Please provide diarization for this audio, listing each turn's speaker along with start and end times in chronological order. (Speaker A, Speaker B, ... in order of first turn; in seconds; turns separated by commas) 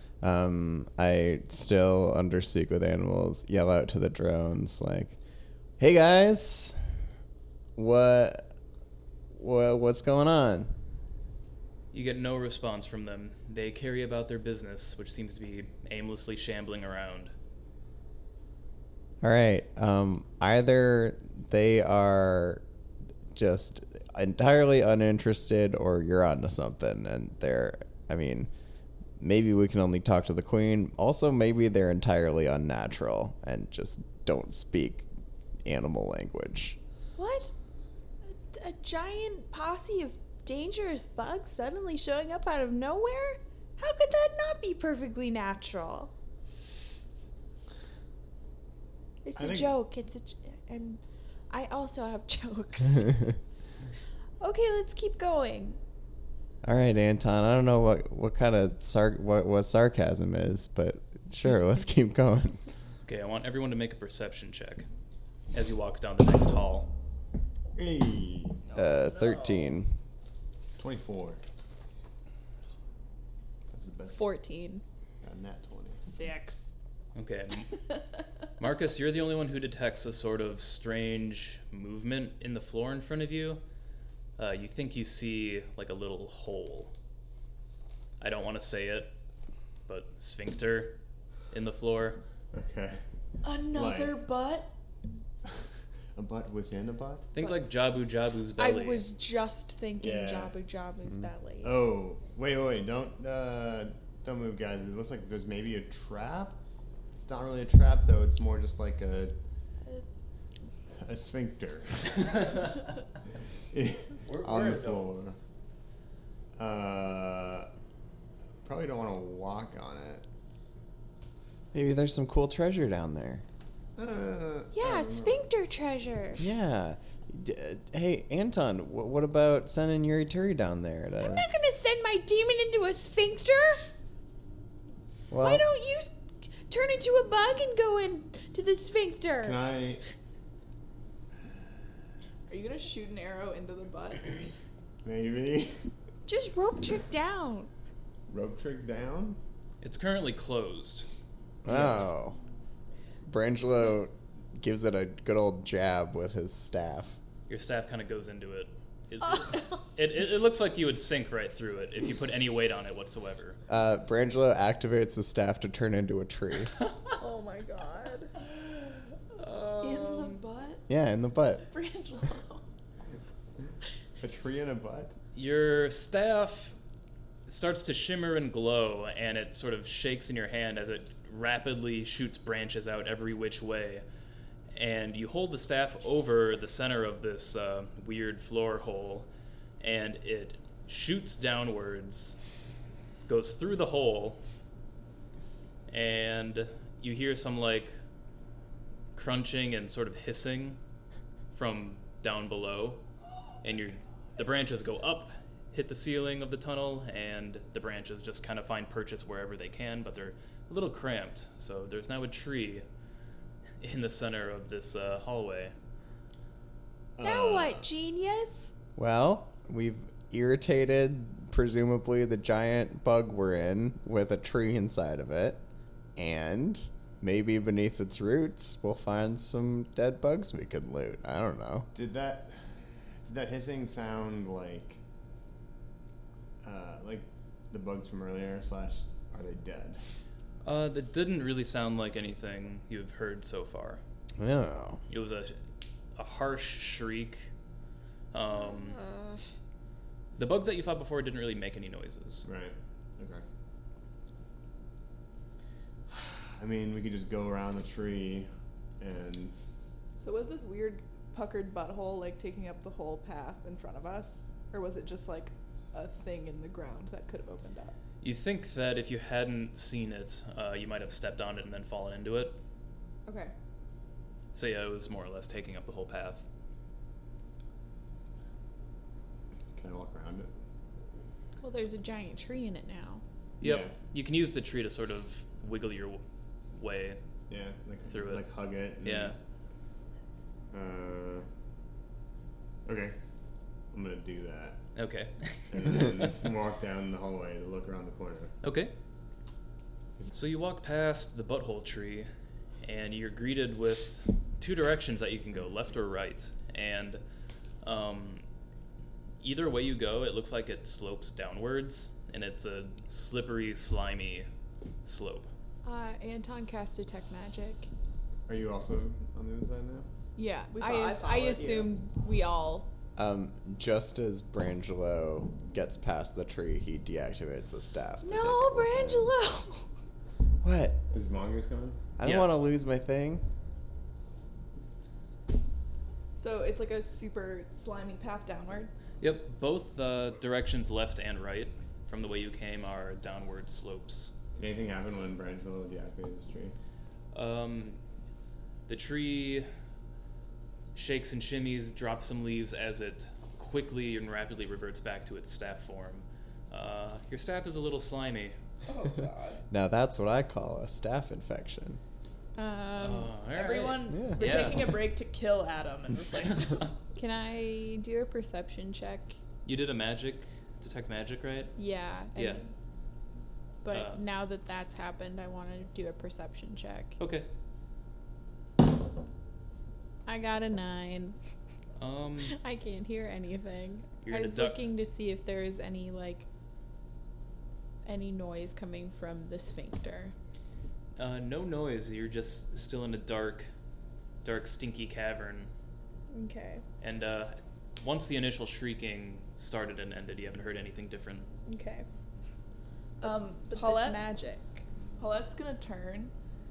Speaker A: 0.2-5.2, Speaker A: 5.8-7.0, Speaker A: 7.8-8.5, Speaker A: 9.3-10.7, Speaker B: 11.9-17.3, Speaker A: 19.2-22.6, Speaker A: 23.3-28.5, Speaker A: 29.2-35.0, Speaker A: 35.6-36.8, Speaker C: 37.1-37.5, Speaker C: 38.2-46.1, Speaker C: 49.2-53.3, Speaker D: 49.3-49.8, Speaker C: 54.4-55.8, Speaker A: 56.6-62.6, Speaker B: 63.0-64.8, Speaker B: 65.5-66.9, Speaker D: 67.7-68.6, Speaker E: 68.6-69.8, Speaker A: 68.7-69.9, Speaker D: 70.8-71.4, Speaker D: 73.7-74.2, Speaker C: 74.1-74.8, Speaker D: 75.2-76.0, Speaker E: 76.0-76.6, Speaker B: 77.1-77.7, Speaker B: 78.6-83.6, Speaker B: 84.4-86.9, Speaker B: 88.2-89.2, Speaker B: 89.9-91.0, Speaker B: 91.5-92.2, Speaker D: 92.5-93.0, Speaker E: 93.4-94.7, Speaker D: 93.6-94.2, Speaker D: 96.1-97.3, Speaker B: 97.3-99.1, Speaker E: 97.4-97.7, Speaker C: 98.6-101.7, Speaker D: 100.0-100.5, Speaker D: 101.6-106.6, Speaker D: 107.2-109.3, Speaker D: 111.0-112.5, Speaker B: 112.4-112.7, Speaker D: 113.7-115.4, Speaker B: 114.2-115.3, Speaker D: 116.6-117.7, Speaker D: 118.6-120.2, Speaker A: 121.7-123.4, Speaker D: 124.0-125.5, Speaker C: 124.7-126.4, Speaker A: 126.4-131.4, Speaker C: 131.2-133.8, Speaker A: 135.3-135.6, Speaker C: 135.4-136.1, Speaker C: 136.6-139.6, Speaker D: 139.4-140.0, Speaker E: 142.5-144.5, Speaker D: 145.0-145.8, Speaker C: 146.3-147.7, Speaker D: 148.3-149.4, Speaker B: 149.8-151.1, Speaker A: 151.6-152.4, Speaker A: 153.2-157.2, Speaker B: 157.5-163.6, Speaker A: 163.7-166.8, Speaker C: 167.2-168.3, Speaker E: 168.3-169.2, Speaker B: 169.4-170.4, Speaker E: 169.8-170.8, Speaker A: 170.9-171.7, Speaker E: 171.6-172.6, Speaker D: 174.2-175.2, Speaker B: 175.3-176.8, Speaker B: 177.5-184.0, Speaker B: 184.7-189.3, Speaker B: 189.8-192.4, Speaker B: 193.2-194.4, Speaker B: 195.9-198.0, Speaker B: 199.1-200.8, Speaker B: 201.5-203.0, Speaker B: 203.6-212.8, Speaker B: 213.8-215.7, Speaker D: 217.2-217.8, Speaker C: 217.2-218.7, Speaker A: 219.0-225.6, Speaker A: 226.2-231.9, Speaker D: 231.9-235.0, Speaker D: 236.6-240.0, Speaker B: 240.6-244.0, Speaker A: 244.4-245.0, Speaker B: 245.1-245.6, Speaker B: 246.2-247.5, Speaker B: 248.3-249.0, Speaker C: 248.5-249.4, Speaker B: 250.3-252.4, Speaker D: 252.4-253.4, Speaker D: 256.1-258.5, Speaker D: 259.0-259.6, Speaker E: 260.2-267.9, Speaker B: 268.2-272.6, Speaker E: 273.2-273.5, Speaker B: 274.5-276.4, Speaker D: 279.8-280.5, Speaker C: 281.6-283.2, Speaker B: 283.6-287.2, Speaker D: 283.6-283.9, Speaker D: 287.5-289.4, Speaker B: 288.1-288.4, Speaker B: 289.0-289.3, Speaker D: 290.7-291.4, Speaker D: 292.8-293.1, Speaker D: 293.9-294.8, Speaker B: 294.9-296.3, Speaker D: 295.7-298.5, Speaker B: 298.6-298.9, Speaker B: 300.3-302.3, Speaker B: 302.8-307.2, Speaker B: 307.8-308.4, Speaker B: 309.4-314.5, Speaker B: 315.0-315.5, Speaker C: 315.8-317.9, Speaker D: 318.5-320.1, Speaker C: 320.4-322.9, Speaker E: 320.7-321.9, Speaker A: 323.1-329.3, Speaker C: 328.2-329.9, Speaker A: 330.6-331.0, Speaker D: 331.1-332.0, Speaker A: 332.2-333.4, Speaker B: 332.2-332.5, Speaker E: 336.4-338.9, Speaker B: 339.2-344.3, Speaker D: 344.6-346.7, Speaker B: 347.3-348.0, Speaker B: 348.9-349.7, Speaker B: 350.9-358.6, Speaker E: 358.9-359.6, Speaker A: 359.7-362.0, Speaker C: 362.6-363.3, Speaker B: 363.0-364.9, Speaker E: 363.5-366.9, Speaker A: 364.1-364.8, Speaker C: 367.1-369.4, Speaker B: 369.6-371.7, Speaker C: 371.8-372.7, Speaker B: 372.3-372.6, Speaker C: 373.8-377.2, Speaker B: 373.9-374.2, Speaker B: 377.2-377.5, Speaker C: 380.2-381.4, Speaker B: 382.0-382.6, Speaker C: 382.5-386.5, Speaker B: 384.2-384.8, Speaker C: 388.0-390.3, Speaker B: 391.1-393.7, Speaker B: 394.4-395.7, Speaker C: 396.3-396.8, Speaker B: 397.0-401.5, Speaker C: 401.6-402.1, Speaker E: 403.2-404.2, Speaker C: 403.2-404.8, Speaker E: 405.2-406.3